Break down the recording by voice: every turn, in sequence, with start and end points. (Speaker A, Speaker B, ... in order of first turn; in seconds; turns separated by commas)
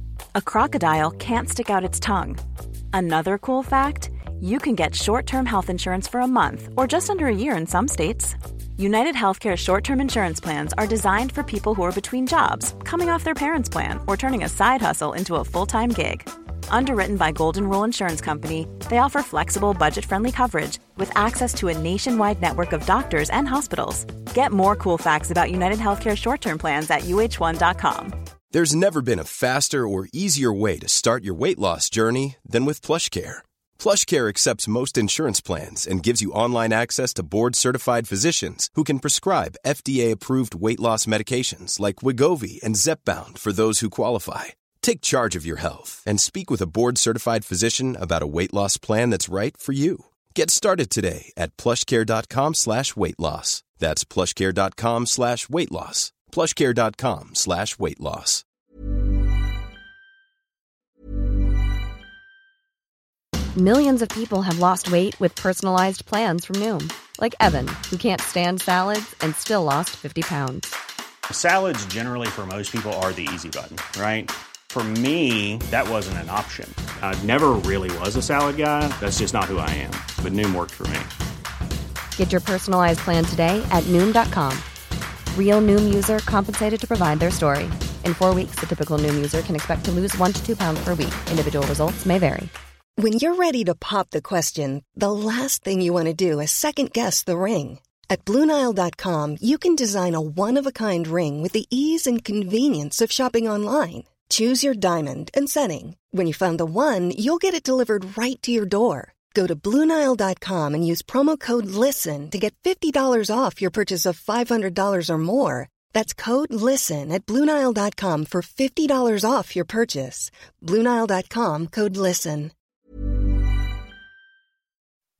Speaker A: 0.3-2.4, Speaker A: 2.9-28.1, Speaker B: 28.5-58.4, Speaker C: 63.5-70.7, Speaker D: 71.3-81.1, Speaker C: 82.2-84.7, Speaker C: 85.3-92.5, Speaker E: 93.0-122.5